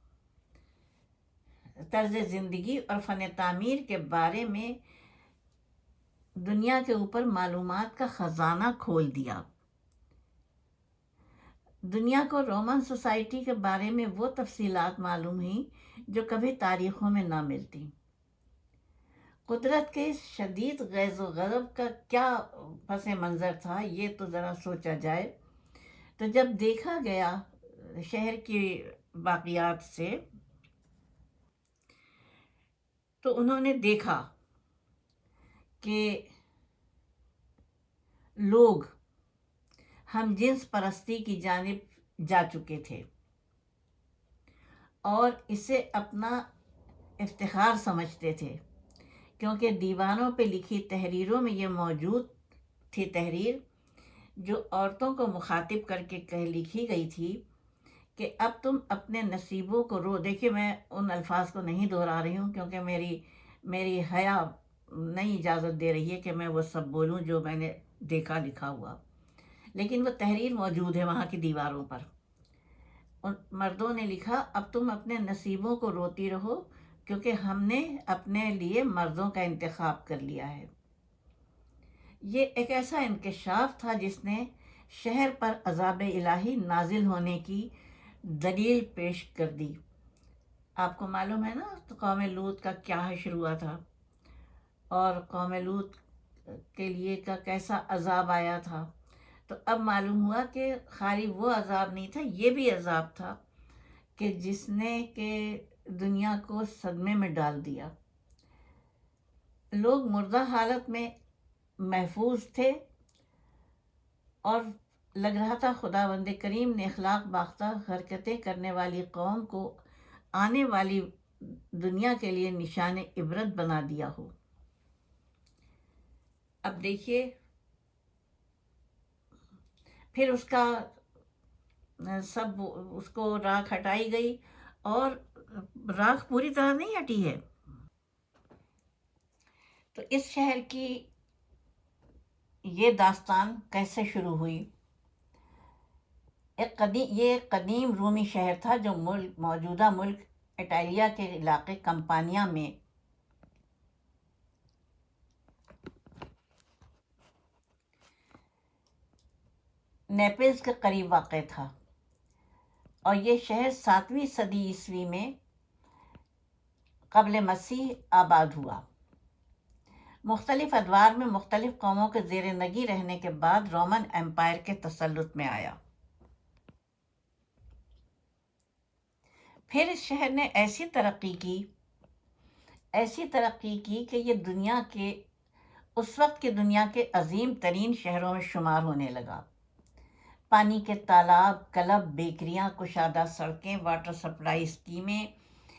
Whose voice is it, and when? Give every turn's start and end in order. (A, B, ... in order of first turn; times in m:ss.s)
0:01.9-0:04.8 A
0:06.4-0:09.4 A
0:11.8-0:17.9 A
0:19.5-0:25.3 A
0:26.2-0:30.2 A
0:33.2-0:34.3 A
0:35.8-0:36.3 A
0:38.4-0:38.9 A
0:40.1-0:43.0 A
0:45.0-0:46.4 A
0:47.2-0:48.6 A
0:49.4-0:52.3 A
0:52.9-0:53.6 A
0:54.4-0:57.4 A
0:58.2-1:09.0 A
1:09.7-1:12.1 A
1:13.2-1:20.7 A
1:22.2-1:27.7 A
1:28.2-1:29.8 A
1:30.8-1:33.8 A
1:34.9-1:38.9 A
1:39.5-1:43.4 A
1:44.2-1:47.9 A
1:49.7-1:51.1 A
1:51.8-1:52.8 A
1:54.4-1:59.8 A
2:00.3-2:04.3 A
2:06.6-2:07.3 A
2:10.1-2:10.9 A
2:12.0-2:17.4 A
2:19.9-2:21.1 A
2:22.6-2:24.6 A
2:26.6-2:32.7 A
2:40.1-2:41.7 A
2:43.0-2:45.3 A
2:47.1-2:48.8 A
2:50.2-2:55.8 A
2:59.7-3:01.6 A
3:02.9-3:05.2 A
3:06.0-3:09.4 A
3:10.5-3:15.3 A